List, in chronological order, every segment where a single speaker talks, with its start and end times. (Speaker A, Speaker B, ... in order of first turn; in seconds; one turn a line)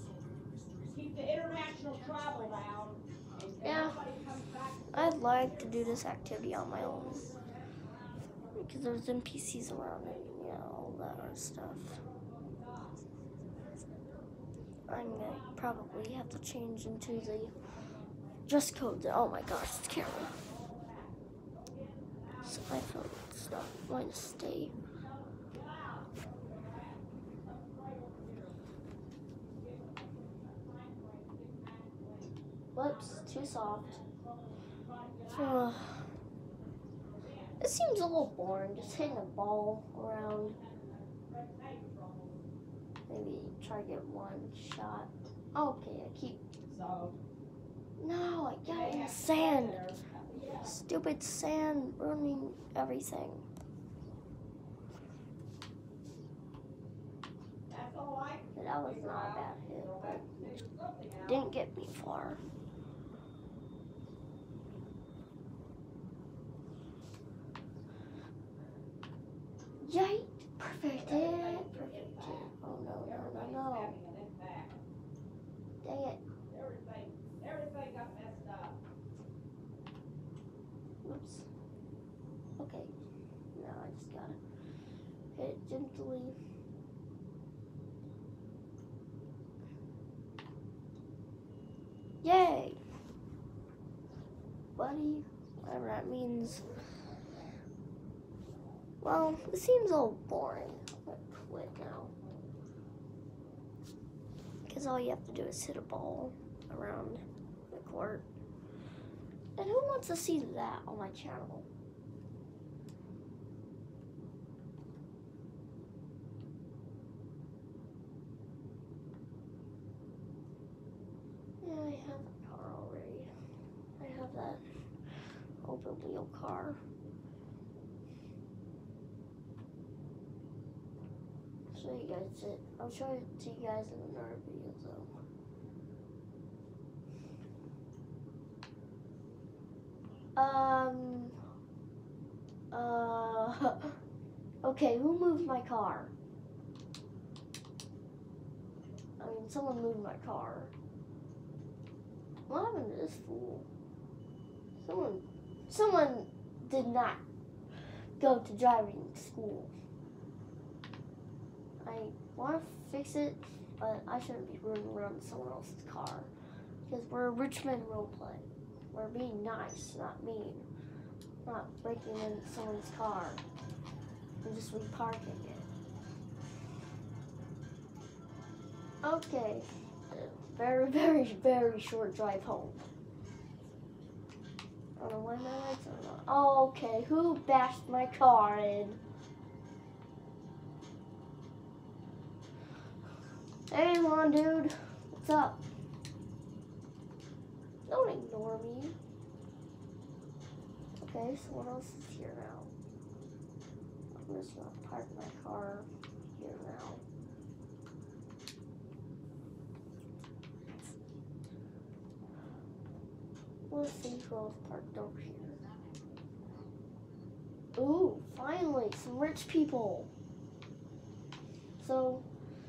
Speaker A: 0.8-22.9
Speaker B: 3.6-4.0
Speaker B: 4.9-7.3
Speaker B: 8.6-12.0
Speaker B: 14.9-17.5
Speaker B: 18.5-20.3
Speaker B: 22.4-24.8
Speaker A: 24.6-28.8
Speaker A: 29.3-36.2
Speaker B: 32.7-34.0
Speaker B: 35.3-36.1
Speaker A: 36.8-39.3
Speaker B: 37.6-40.5
Speaker A: 40.0-42.5
Speaker B: 43.1-46.4
Speaker A: 46.6-47.2
Speaker B: 48.0-49.9
Speaker A: 48.6-50.8
Speaker B: 50.5-53.4
Speaker A: 57.7-61.5
Speaker B: 58.5-60.6
Speaker B: 61.2-62.4
Speaker B: 69.8-74.0
Speaker A: 70.9-74.8
Speaker B: 75.8-76.2
Speaker A: 76.5-78.8
Speaker B: 81.0-81.5
Speaker B: 82.6-82.9
Speaker B: 83.5-84.4
Speaker B: 85.3-86.4
Speaker B: 92.2-92.8
Speaker B: 94.8-96.6
Speaker A: 96.3-97.6
Speaker A: 98.4-98.9
Speaker B: 99.0-102.1
Speaker A: 102.0-102.7
Speaker B: 104.7-108.3
Speaker B: 109.6-111.7
Speaker B: 121.6-123.3
Speaker B: 124.0-124.6
Speaker B: 125.6-126.8
Speaker B: 131.7-135.1
Speaker B: 140.3-141.3
Speaker B: 142.7-143.9
Speaker B: 144.6-146.1
Speaker B: 149.2-150.7
Speaker B: 152.5-153.7
Speaker B: 154.8-157.2
Speaker B: 158.2-159.7
Speaker B: 161.8-166.3
Speaker B: 166.8-170.7
Speaker B: 171.4-173.4
Speaker B: 174.4-175.7
Speaker B: 179.0-182.8
Speaker B: 185.0-189.0
Speaker B: 193.7-195.6
Speaker B: 197.9-198.9
Speaker B: 201.0-202.7
Speaker B: 204.1-207.0
Speaker B: 213.7-215.6
Speaker B: 217.8-220.1
Speaker B: 221.8-222.3